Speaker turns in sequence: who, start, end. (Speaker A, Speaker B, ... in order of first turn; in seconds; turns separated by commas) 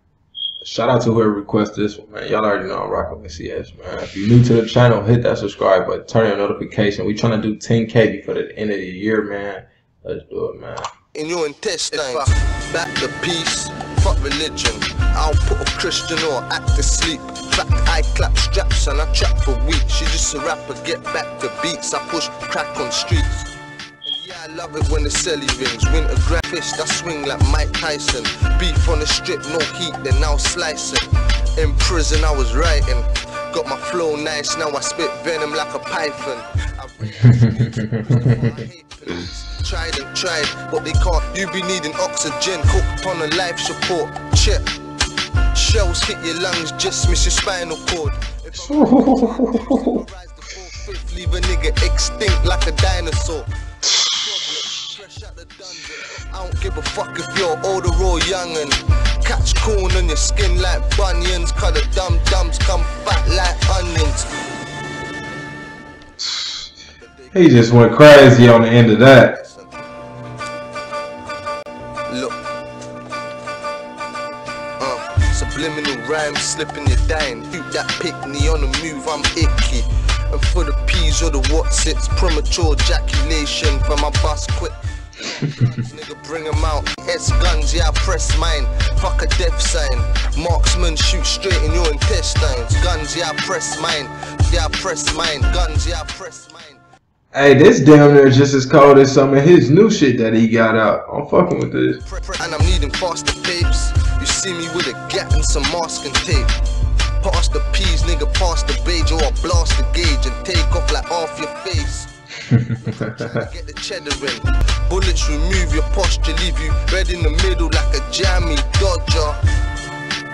Speaker A: 0.6-10.9, Speaker B: 11.1-23.5, Speaker B: 24.0-44.7, Speaker A: 37.3-38.2, Speaker B: 45.5-64.3, Speaker A: 48.5-50.0, Speaker A: 66.2-66.7, Speaker B: 67.0-68.4, Speaker A: 67.3-69.3, Speaker B: 69.1-69.7, Speaker B: 72.1-72.4, Speaker B: 74.8-96.8, Speaker A: 97.3-102.0, Speaker B: 102.0-106.5, Speaker B: 107.2-112.1, Speaker A: 112.5-112.9, Speaker B: 112.8-119.4